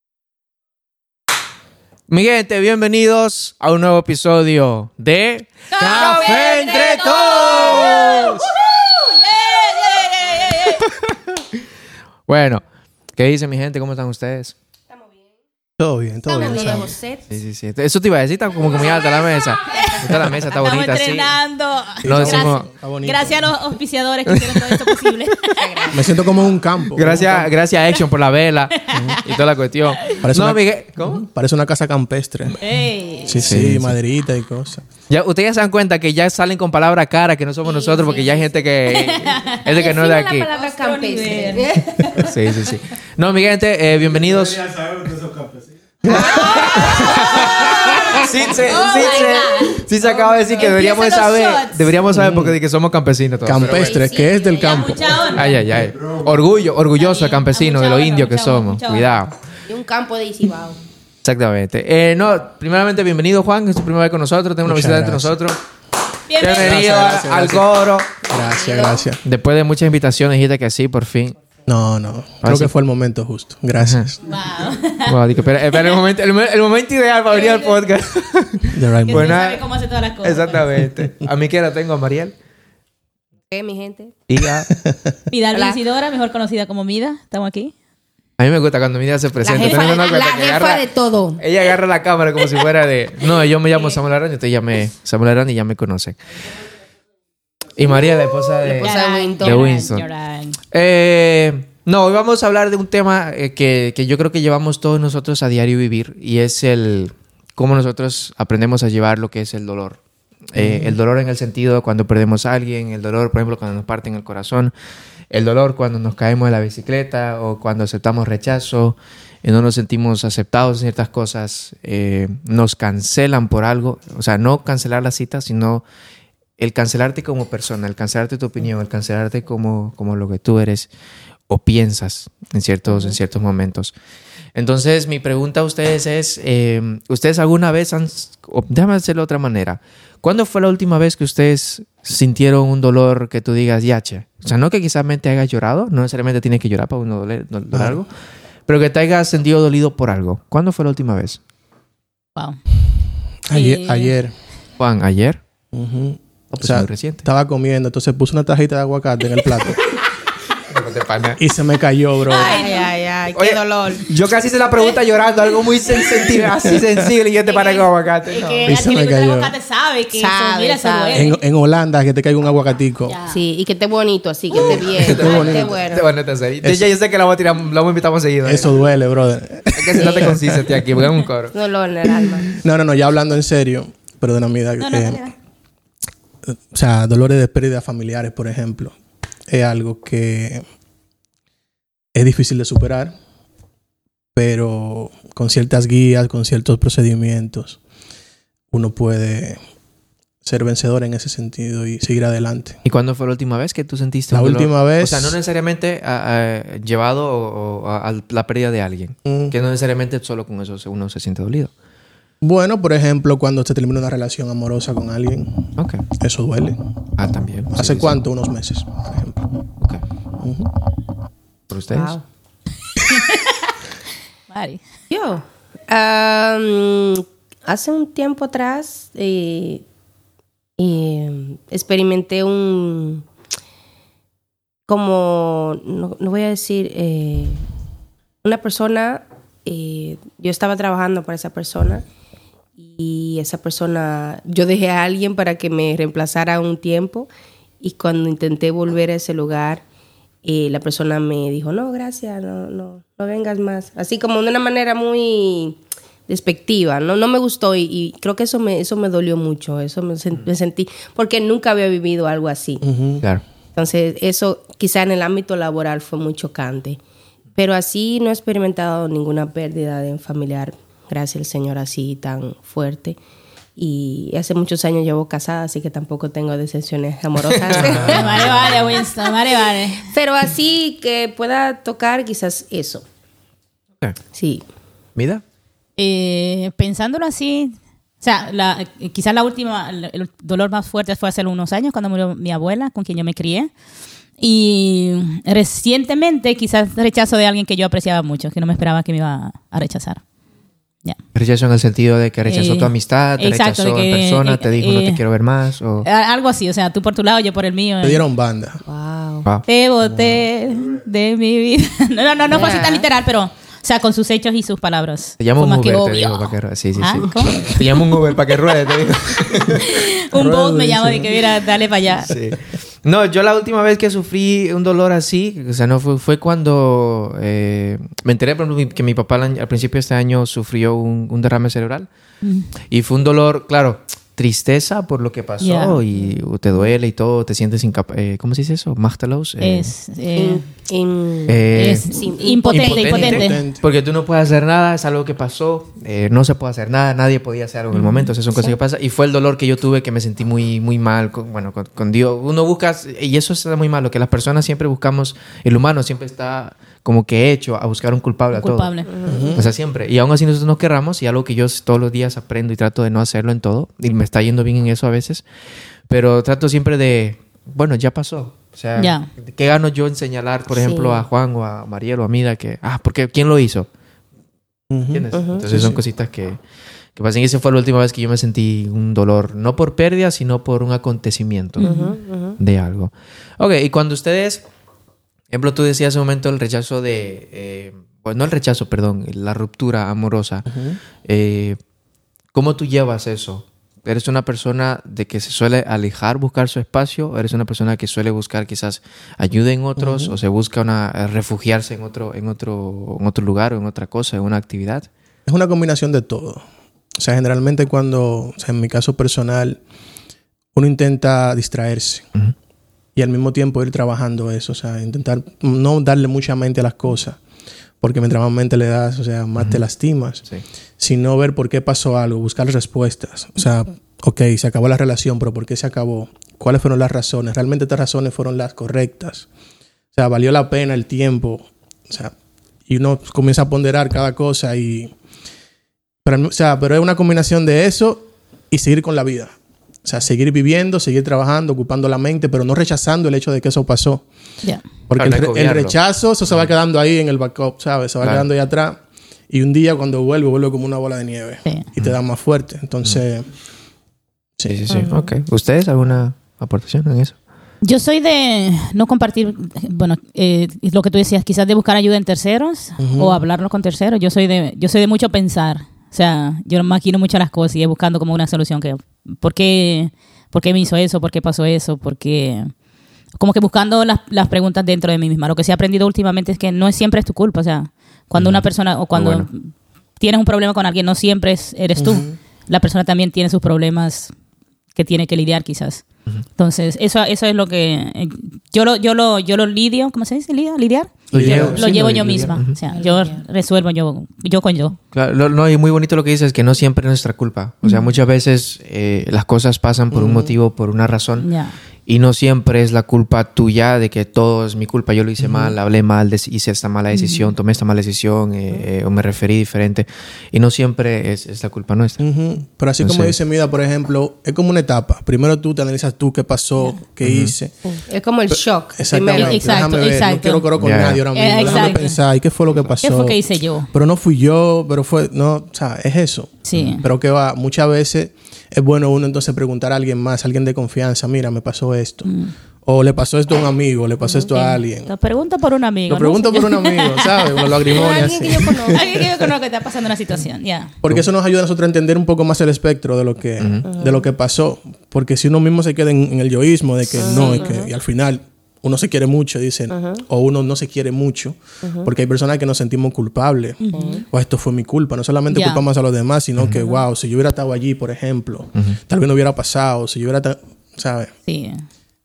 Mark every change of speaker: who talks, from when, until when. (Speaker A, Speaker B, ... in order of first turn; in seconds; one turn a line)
Speaker A: 2.1-8.5
Speaker B: 5.8-10.8
Speaker A: 10.5-11.0
Speaker A: 12.3-12.6
Speaker A: 13.2-14.5
Speaker C: 15.8-16.9
Speaker D: 16.3-17.3
Speaker A: 17.3-21.3
Speaker B: 19.7-26.0
Speaker C: 22.0-23.6
Speaker A: 22.0-22.7
Speaker A: 24.3-25.1
Speaker D: 25.6-26.5
Speaker C: 25.9-27.5
Speaker A: 26.9-31.3
Speaker B: 28.9-29.4
Speaker C: 28.9-29.2
Speaker C: 30.2-32.6
Speaker B: 32.6-33.5
Speaker C: 33.2-34.9
Speaker A: 33.3-34.0
Speaker A: 35.1-40.5
Speaker B: 37.7-38.4
Speaker B: 38.9-42.3
Speaker D: 39.7-42.2
Speaker A: 42.2-45.2
Speaker C: 46.0-46.5
Speaker A: 46.1-54.0
Speaker B: 46.1-52.0
Speaker D: 46.3-46.7
Speaker C: 52.1-52.6
Speaker C: 53.4-55.2
Speaker D: 53.6-55.4
Speaker B: 54.6-55.6
Speaker A: 55.3-59.3
Speaker B: 57.0-59.2
Speaker D: 59.7-60.8
Speaker A: 61.2-65.6
Speaker C: 64.6-65.4
Speaker B: 66.3-67.0
Speaker A: 66.3-68.1
Speaker C: 66.5-69.2
Speaker D: 68.3-69.1
Speaker A: 69.2-71.4
Speaker C: 71.7-74.2
Speaker A: 72.4-72.7
Speaker A: 73.8-74.1
Speaker B: 74.2-75.2
Speaker A: 75.0-79.7
Speaker B: 77.3-77.9
Speaker C: 78.7-79.3
Speaker B: 79.1-80.8
Speaker A: 80.2-82.3
Speaker D: 83.5-84.2
Speaker A: 84.3-84.7
Speaker C: 84.4-85.2
Speaker B: 85.3-87.7
Speaker D: 85.5-85.8
Speaker A: 88.4-90.8
Speaker D: 89.4-91.4
Speaker B: 89.6-90.1
Speaker A: 91.4-96.2
Speaker A: 97.8-100.1
Speaker D: 98.6-99.9
Speaker B: 98.7-100.6
Speaker A: 100.7-110.0
Speaker A: 110.5-114.7
Speaker C: 110.6-111.0
Speaker A: 115.3-125.8
Speaker A: 126.6-130.9
Speaker A: 131.5-133.9
Speaker A: 134.6-148.1
Speaker C: 147.7-148.0
Speaker A: 148.7-151.4
Speaker C: 153.5-154.3
Speaker B: 153.5-154.1
Speaker A: 154.8-155.4
Speaker C: 155.7-159.8
Speaker A: 156.5-157.2
Speaker A: 160.7-161.4
Speaker C: 161.4-162.6
Speaker B: 162.2-162.9
Speaker D: 162.3-164.1
Speaker A: 163.3-168.8
Speaker B: 166.0-166.3
Speaker B: 167.4-171.4
Speaker C: 168.7-169.5
Speaker D: 170.1-171.3
Speaker C: 171.1-173.2
Speaker B: 173.1-173.4
Speaker D: 173.3-176.1
Speaker C: 174.6-175.8
Speaker A: 174.7-178.7
Speaker C: 178.4-180.8
Speaker A: 179.7-181.5
Speaker D: 181.5-182.5
Speaker C: 182.5-185.2
Speaker B: 184.8-185.3
Speaker C: 186.5-188.9
Speaker C: 189.5-190.6
Speaker C: 192.1-193.2
Speaker C: 194.4-197.8
Speaker C: 198.7-199.6
Speaker C: 200.4-202.8
Speaker A: 202.8-211.7
Speaker C: 204.3-205.4
Speaker C: 209.3-209.6
Speaker C: 212.4-215.6
Speaker A: 215.8-216.1
Speaker C: 216.2-216.8
Speaker A: 217.2-218.2
Speaker C: 217.7-219.5
Speaker C: 220.4-220.7
Speaker A: 221.7-222.2
Speaker D: 221.9-222.2
Speaker B: 223.0-223.7
Speaker B: 224.5-224.8
Speaker D: 225.1-229.8
Speaker D: 230.8-233.2
Speaker D: 234.9-237.6
Speaker D: 238.4-242.0
Speaker D: 242.8-247.3
Speaker D: 247.8-249.8
Speaker D: 250.4-262.8
Speaker C: 262.8-263.2
Speaker D: 263.8-267.0
Speaker D: 267.6-273.2
Speaker D: 273.8-278.3
Speaker A: 277.5-279.0
Speaker B: 277.8-280.1
Speaker C: 277.9-278.2
Speaker D: 280.0-283.0
Speaker D: 284.3-284.6
Speaker A: 285.2-285.4
Speaker B: 286.0-293.7
Speaker B: 294.4-300.2
Speaker A: 301.3-306.1
Speaker B: 302.5-305.2
Speaker B: 306.0-308.2
Speaker C: 308.0-308.8
Speaker D: 308.9-309.5
Speaker A: 309.5-310.2
Speaker B: 309.7-322.3
Speaker D: 312.5-313.1
Speaker A: 315.4-319.9
Speaker C: 320.3-321.4
Speaker A: 322.3-332.1
Speaker B: 332.4-332.7
Speaker A: 332.9-339.9
Speaker B: 335.6-336.0
Speaker B: 339.6-340.6
Speaker D: 340.4-343.5
Speaker A: 341.5-358.9
Speaker B: 341.7-343.6
Speaker C: 343.2-343.9
Speaker B: 347.9-348.8
Speaker B: 358.5-359.1
Speaker D: 359.1-359.6
Speaker C: 359.3-359.7
Speaker A: 359.5-365.4
Speaker A: 366.1-373.9
Speaker B: 369.0-369.3
Speaker D: 370.8-371.2
Speaker C: 374.9-376.0
Speaker A: 375.1-376.6
Speaker D: 375.3-375.6
Speaker A: 377.2-381.9
Speaker B: 381.8-382.1
Speaker D: 381.8-382.6
Speaker A: 382.6-384.6
Speaker A: 385.5-390.7
Speaker C: 390.7-391.0
Speaker A: 391.2-391.8
Speaker A: 392.5-405.1
Speaker C: 400.0-400.4
Speaker C: 405.5-406.6
Speaker C: 407.2-409.8
Speaker C: 410.8-412.3
Speaker C: 413.2-417.4
Speaker C: 418.0-420.4
Speaker C: 421.0-429.5
Speaker C: 430.1-432.3
Speaker C: 432.9-435.1
Speaker C: 436.2-444.2
Speaker C: 445.1-453.5
Speaker A: 445.2-445.9
Speaker C: 454.6-454.9
Speaker A: 454.7-457.4
Speaker B: 457.8-472.7
Speaker C: 463.0-463.4
Speaker B: 473.4-484.3
Speaker A: 478.3-479.5
Speaker C: 482.0-482.4
Speaker B: 485.0-486.1
Speaker B: 486.6-495.0
Speaker C: 491.3-492.5
Speaker A: 491.3-492.8
Speaker A: 495.1-501.5
Speaker B: 497.8-498.1
Speaker C: 500.1-500.6
Speaker B: 501.4-501.8
Speaker A: 502.1-512.2
Speaker C: 505.4-505.8
Speaker B: 507.1-507.5
Speaker C: 512.2-517.8
Speaker A: 513.0-513.3
Speaker A: 517.2-517.5
Speaker D: 517.9-519.9
Speaker C: 518.5-523.4
Speaker B: 519.4-520.7
Speaker A: 520.8-521.2
Speaker B: 521.3-522.2
Speaker D: 521.6-521.9
Speaker B: 523.0-523.9
Speaker C: 523.9-532.3
Speaker B: 526.6-527.1
Speaker B: 532.2-532.5
Speaker C: 532.9-535.1
Speaker B: 534.5-538.0
Speaker C: 536.1-539.2
Speaker D: 537.9-539.2
Speaker B: 538.9-540.9
Speaker C: 541.0-561.3
Speaker A: 543.6-543.9
Speaker D: 543.9-544.2
Speaker D: 547.2-547.9
Speaker B: 547.3-547.6
Speaker D: 549.9-550.2
Speaker B: 553.8-554.2
Speaker D: 553.9-554.3
Speaker B: 555.5-555.8
Speaker D: 556.8-557.0
Speaker B: 561.5-561.8